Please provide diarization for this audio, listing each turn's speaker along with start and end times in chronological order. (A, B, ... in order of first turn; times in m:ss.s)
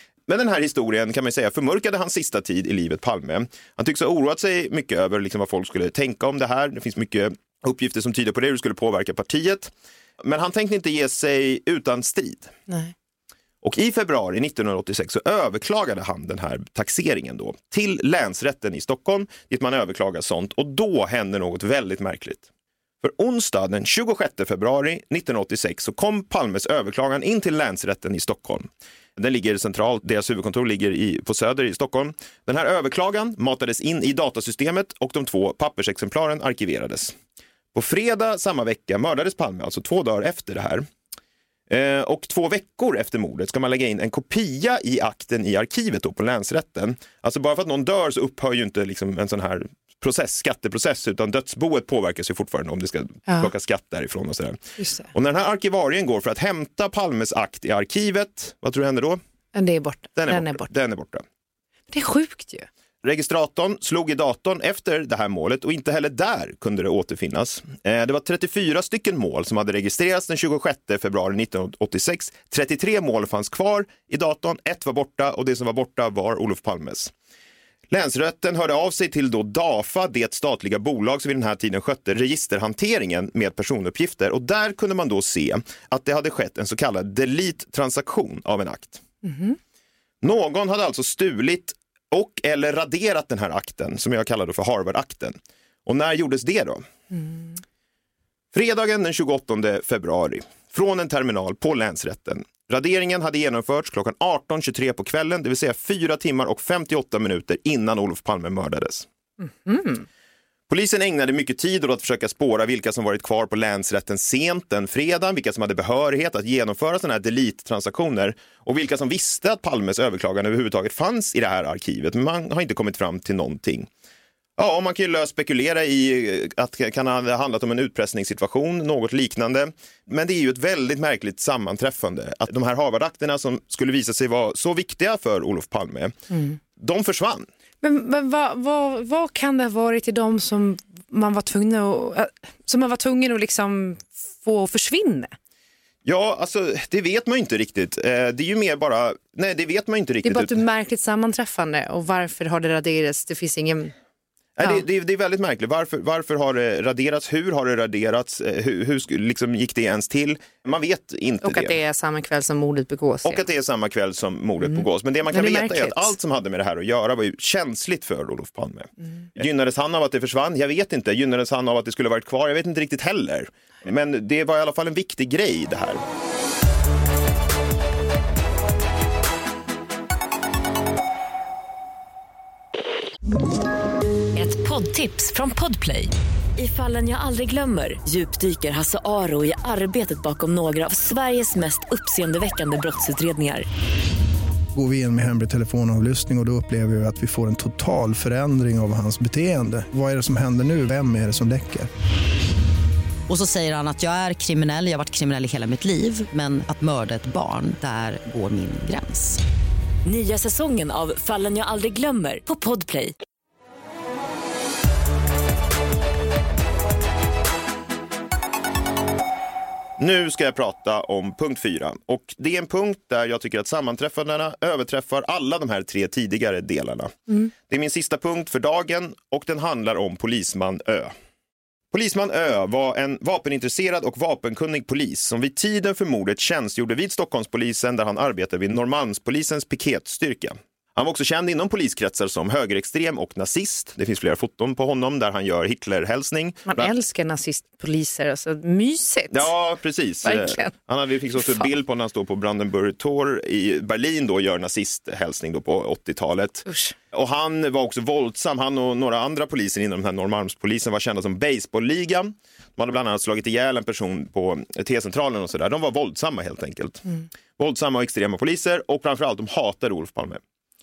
0:00.3-0:12.5 A
0:13.6-0:22.4 A
0:23.0-0:37.2 A
0:37.7-0:40.9 A
0:41.7-0:54.6 A
0:54.8-0:55.1 B
0:55.1-0:59.2 A
0:59.5-1:00.7 B
1:00.2-1:01.2 A
1:01.9-1:02.7 B
1:03.0-1:17.1 A
1:17.9-1:29.0 A
1:29.2-1:29.6 B
1:30.2-1:36.8 A
1:37.1-1:37.4 B
1:38.5-1:49.1 A
1:49.4-1:50.1 B
1:50.7-2:03.9 A
2:04.6-2:16.1 A
2:16.3-2:16.6 B
2:16.8-2:17.5 A
2:17.8-2:25.3 B
2:26.0-2:30.6 A
2:30.2-2:33.9 B
2:34.6-2:41.8 A
2:41.4-2:43.4 B
2:43.2-2:56.0 A
2:44.6-2:46.1 B
3:04.3-3:13.6 C
3:14.7-3:21.9 D
3:23.3-3:29.4 E
3:30.0-3:33.2 C
3:40.0-3:51.1 A
3:51.9-4:06.9 A
4:06.7-4:09.5 B
4:09.3-4:30.4 A
4:10.2-4:10.7 B
4:16.6-4:16.9 B